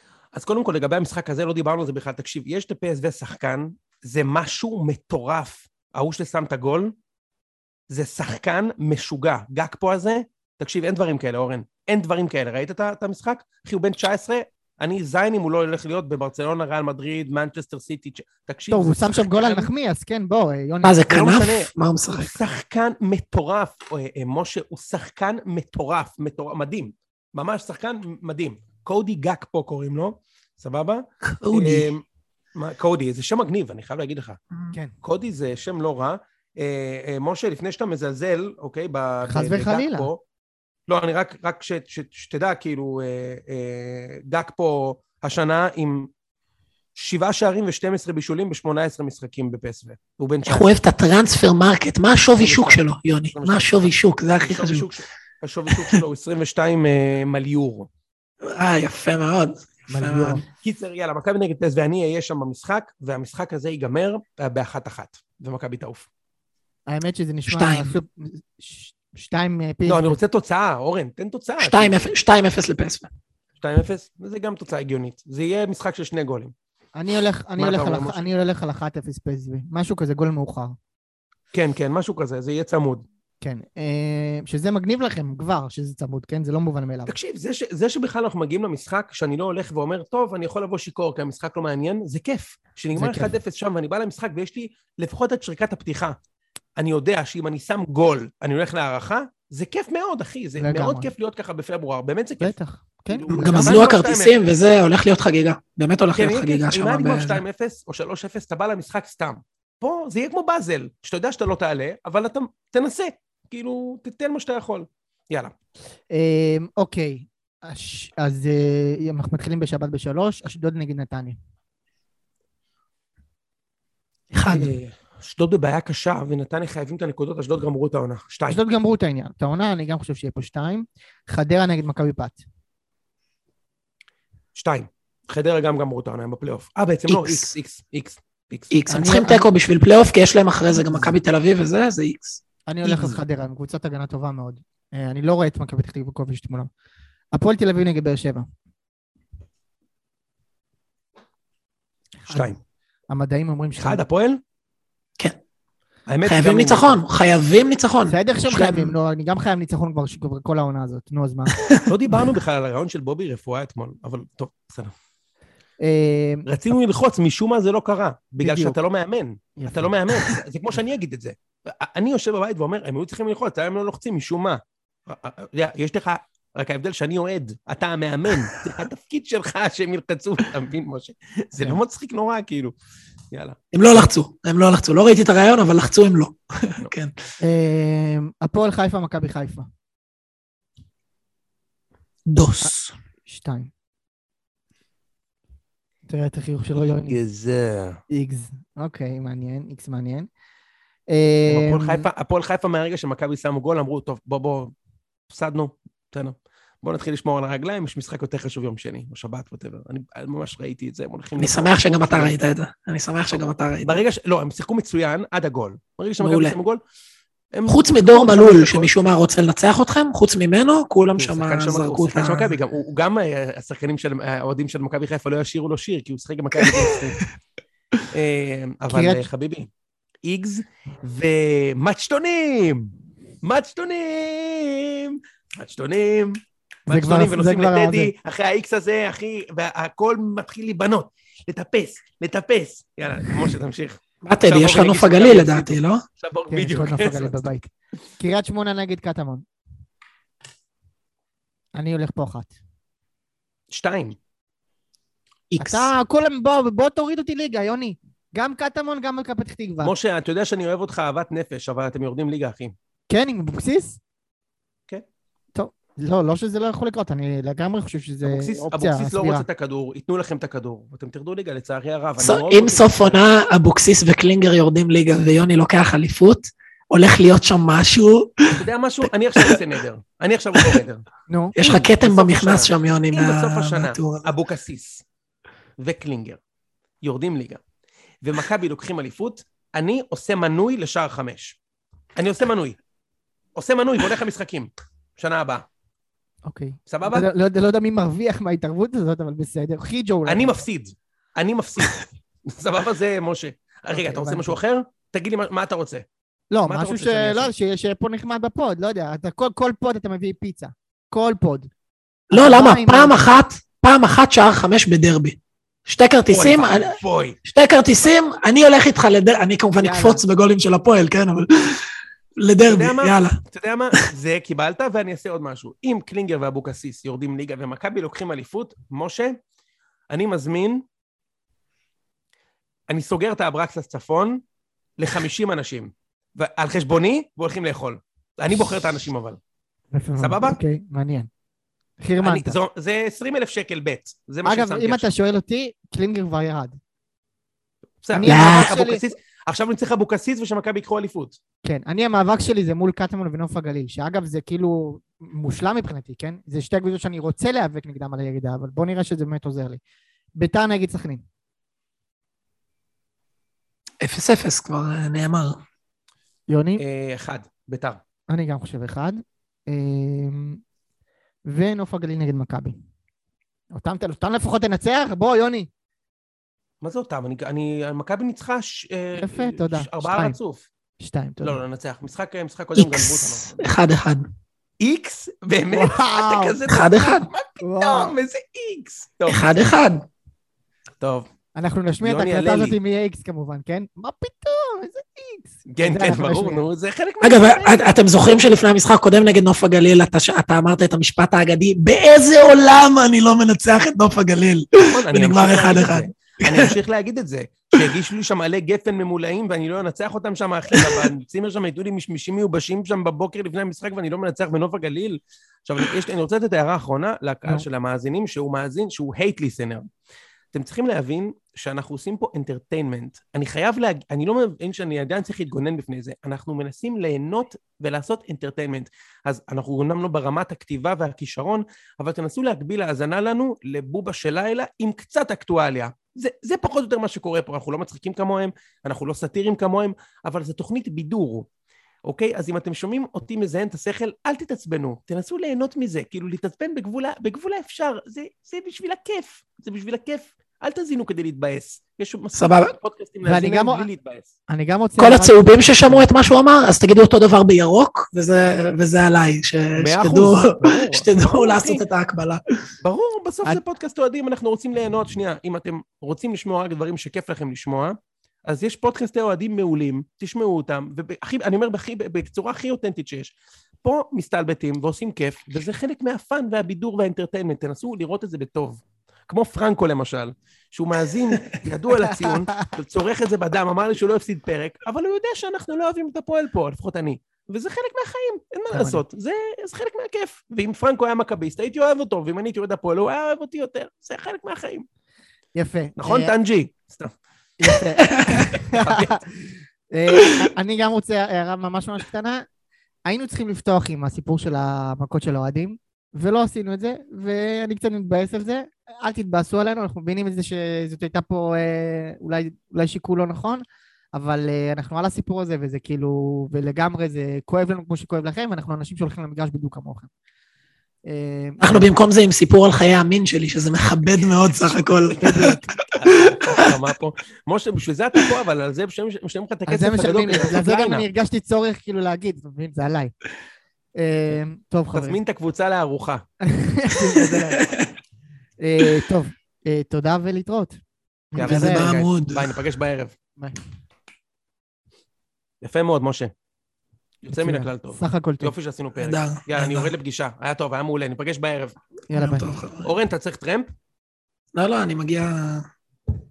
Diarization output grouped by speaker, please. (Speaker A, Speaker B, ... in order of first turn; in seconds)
Speaker A: 0.3-6.9, 7.9-19.7, 21.1-32.0, 32.5-34.4, 35.0-40.2, 40.9-46.1, 47.0-50.7, 52.4-57.9, 60.6-66.1, 69.9-72.1, 73.6-76.5, 77.6-78.3, 81.5-83.0, 87.1-96.2, 96.8-102.5, 103.1-104.4, 106.1-115.5, 124.5-128.6, 134.6-138.7, 152.3-152.6, 153.8-154.4, 156.1-157.0, 161.8-164.9, 166.4-182.7, 183.3-184.1, 197.1-198.0, 201.5-204.7, 205.3-212.3, 213.8-216.8, 217.5-219.0, 221.2-227.2, 228.1-229.7, 230.2-232.9, 233.4-247.5, 253.7-254.2, 259.8-262.7, 268.2-273.2, 278.5-281.0, 281.6-285.0, 285.8-286.4, 287.0-287.6, 288.2-291.6, 292.1-292.8, 293.6-295.6, 296.9-297.2, 300.2-306.0, 306.6-307.5, 316.3-317.4, 322.7-329.4, 330.1-330.8, 332.9-334.4, 335.0-339.4, 340.2-340.6, 342.2-345.1, 348.0-351.4, 366.8-368.0, 376.8-380.7, 381.4-383.6, 384.8-389.5, 391.0-391.3, 392.0-392.8, 395.7-398.4, 404.9-419.9, 420.5-441.4, 442.0-454.3, 459.8-461.8, 462.8-494.8, 496.0-497.1, 498.3-499.3, 525.0-531.0, 534.9-536.2, 541.4-543.1, 545.6-546.3, 547.2-551.8, 552.8-553.7
Speaker B: 18.7-21.1, 39.3-40.1, 59.9-60.4, 66.9-70.2, 76.9-80.8, 83.4-87.1, 92.9-93.3, 100.6-101.1, 102.4-103.9, 116.1-121.4, 128.5-132.4, 138.9-139.5, 140.7-141.1, 142.7-146.7, 147.3-148.5, 152.2-152.5, 153.1-154.0, 158.1-161.6, 165.8-166.4, 168.4-168.8, 169.6-169.9, 187.4-189.7, 193.2-193.7, 196.1-197.2, 198.1-200.3, 201.1-202.1, 228.9-229.3, 236.9-238.1, 246.5-249.4, 251.7-252.6, 255.6-259.9, 263.1-264.0, 265.5-269.4, 281.3-281.7, 296.4-300.6, 303.9-304.6, 306.5-311.7, 312.3-313.3, 319.8-320.2, 339.9-341.3, 342.0-342.6, 344.4-346.8, 348.1-349.0, 351.6-359.8, 360.4-361.2, 366.5-366.8, 368.3-370.6, 371.4-372.8, 373.7-375.7, 379.2-380.4, 381.0-381.6, 385.7-386.6, 387.6-388.1, 391.5-396.6, 453.2-453.9, 454.5-456.1, 482.2-482.6, 488.7-489.0, 495.6-496.3, 497.6-499.2, 499.9-502.4, 503.1-520.1, 521.1-521.9, 525.2-525.8, 529.7-533.1, 534.0-535.2, 536.4-537.7, 538.6-540.8, 541.3-541.9, 547.3-548.5, 552.1-552.5
Speaker C: 20.8-22.4, 31.2-31.9, 50.5-54.9, 58.4-60.4, 67.5-68.0, 71.6-73.1, 103.3-107.4, 124.3-124.7, 137.1-137.5, 138.7-143.2, 156.2-158.9, 161.6-161.8, 183.7-187.1, 192.2-192.9, 211.4-214.0, 216.2-216.6, 217.7-222.5, 226.6-227.0, 244.2-246.0, 255.5-255.9, 272.2-278.6, 279.4-279.6, 281.6-284.3, 312.3-323.4, 348.2-348.7, 364.0-365.6, 382.7-384.3, 386.6-387.3, 389.3-390.1, 397.2-406.7, 410.7-411.1, 452.3-452.7, 455.0-462.4, 498.1-498.5, 521.6-525.5, 537.2-537.9, 541.4-542.6, 549.0-549.9, 552.1-552.9, 554.5-555.7